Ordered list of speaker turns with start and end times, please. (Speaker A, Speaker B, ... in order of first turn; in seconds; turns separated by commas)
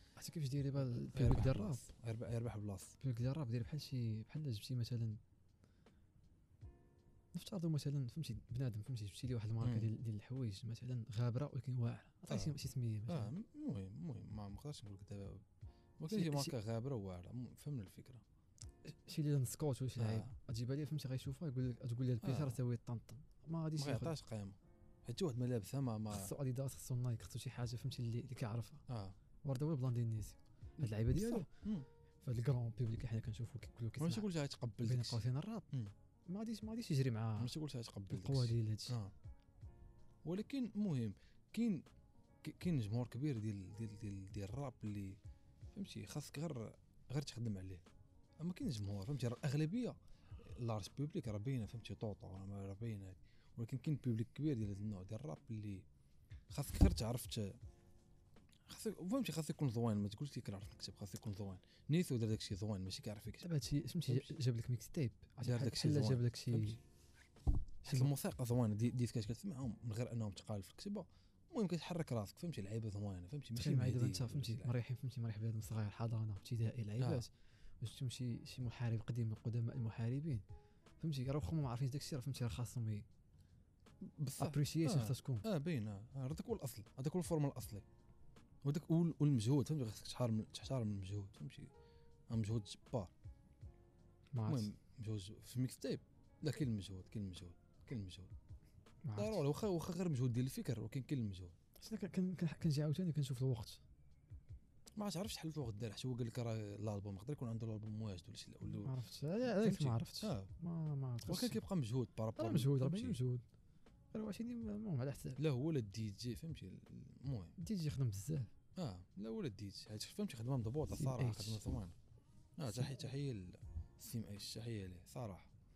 Speaker A: 0.1-1.8, Speaker B: 1.0-3.0, Speaker A: 3.0-5.2, Speaker A: 7.3-13.3, Speaker B: 9.6-9.9, Speaker B: 12.3-15.4, Speaker B: 16.0-18.2, Speaker A: 16.1-16.5, Speaker A: 18.8-24.1, Speaker B: 20.0-20.3, Speaker B: 22.2-22.6, Speaker B: 23.8-26.3, Speaker A: 26.1-28.8, Speaker B: 28.9-29.1, Speaker A: 29.4-31.5, Speaker B: 30.8-31.9, Speaker A: 32.2-34.3, Speaker B: 34.0-35.9, Speaker A: 34.8-35.7, Speaker A: 36.3-37.5, Speaker B: 37.4-39.1, Speaker A: 38.1-39.0, Speaker B: 40.2-41.9, Speaker B: 42.4-45.2, Speaker B: 45.7-47.8, Speaker B: 48.4-55.9, Speaker B: 56.5-57.6, Speaker B: 58.7-63.5, Speaker A: 63.4-66.8, Speaker B: 64.1-64.3, Speaker B: 65.4-66.8, Speaker B: 67.8-74.7, Speaker A: 67.8-68.1, Speaker A: 73.5-80.4, Speaker B: 77.0-77.2, Speaker A: 81.0-83.0, Speaker B: 84.0-87.8, Speaker A: 84.4-85.4, Speaker B: 88.6-91.7, Speaker B: 92.3-93.1, Speaker A: 94.3-94.7, Speaker B: 94.4-98.3, Speaker A: 99.0-99.4, Speaker B: 99.2-101.5, Speaker A: 101.8-103.8, Speaker B: 105.0-109.0, Speaker A: 108.7-111.6, Speaker B: 109.5-110.5, Speaker B: 111.2-113.2, Speaker A: 112.3-113.4, Speaker A: 114.1-115.4, Speaker B: 115.4-117.5, Speaker A: 117.6-118.5, Speaker B: 118.8-122.0, Speaker A: 121.0-121.6, Speaker B: 122.6-125.5